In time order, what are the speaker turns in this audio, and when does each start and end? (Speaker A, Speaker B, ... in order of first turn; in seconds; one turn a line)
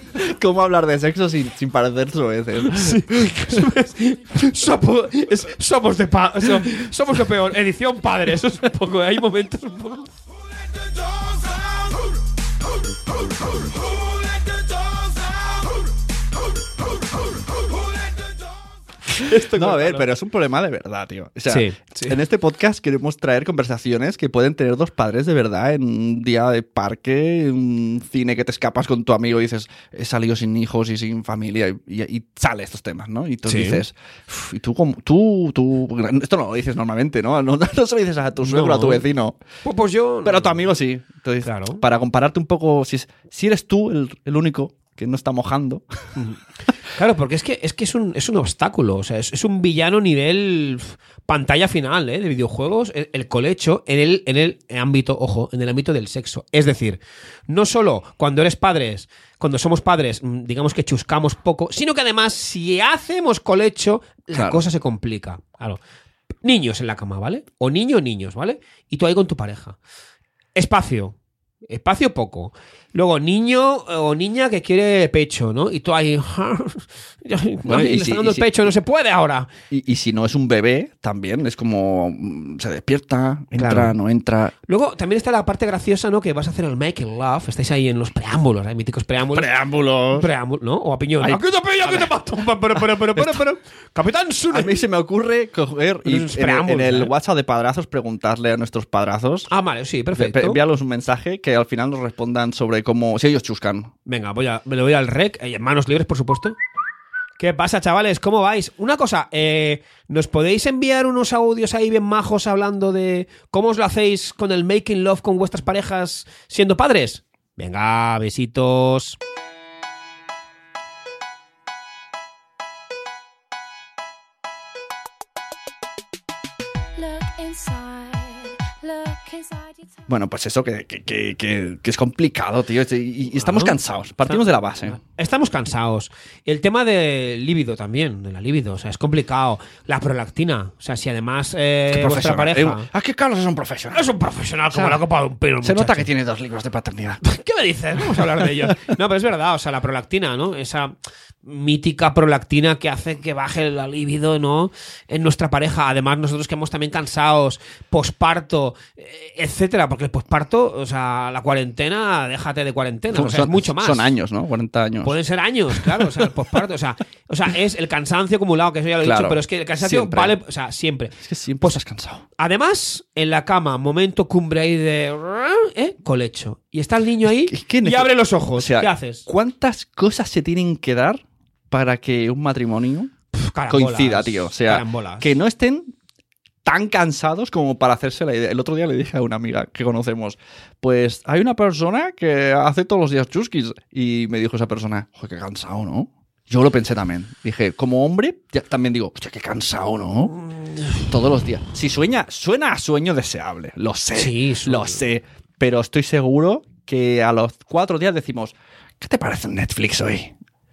Speaker A: 0.1-3.6
Speaker B: 2.6-10.1
Speaker B: 19.1-20.1
Speaker A: 19.5-39.4
Speaker B: 21.5-22.2
Speaker B: 33.5-33.8
Speaker B: 38.4-39.0
Speaker B: 39.6-40.7
Speaker A: 40.2-45.8
Speaker B: 41.4-41.8
Speaker B: 46.9-65.8
Speaker A: 64.3-64.6
Speaker B: 66.4-69.8
Speaker B: 70.5-71.2
Speaker B: 71.7-79.5
Speaker A: 77.6-78.7
Speaker A: 79.7-84.5
Speaker B: 83.5-83.9
Speaker B: 84.7-89.5
Speaker A: 89.3-90.3
Speaker B: 90.1-94.8
Speaker A: 91.2-92.1
Speaker A: 93.2-93.5
Speaker A: 94.5-99.5
Speaker B: 96.0-97.1
Speaker B: 99.5-100.6
Speaker A: 100.1-103.9
Speaker B: 104.0-106.5
Speaker B: 107.4-119.2
Speaker C: 127.0-130.1
Speaker A: 130.1-135.0
Speaker B: 133.4-133.8
Speaker B: 134.3-142.9
Speaker A: 141.9-144.1
Speaker B: 143.9-146.1
Speaker A: 144.7-145.0
Speaker A: 145.6-147.2
Speaker B: 147.2-164.1
Speaker A: 148.0-148.9
Speaker A: 163.1-165.2
Speaker B: 165.0-171.8
Speaker A: 165.7-166.2
Speaker A: 169.0-170.3
Speaker A: 171.2-172.2
Speaker B: 172.4-179.2
Speaker A: 177.2-183.1
Speaker B: 183.3-185.3
Speaker A: 183.7-185.9
Speaker A: 186.6-200.3
Speaker B: 200.5-201.0
Speaker A: 201.1-210.3
Speaker B: 204.1-205.0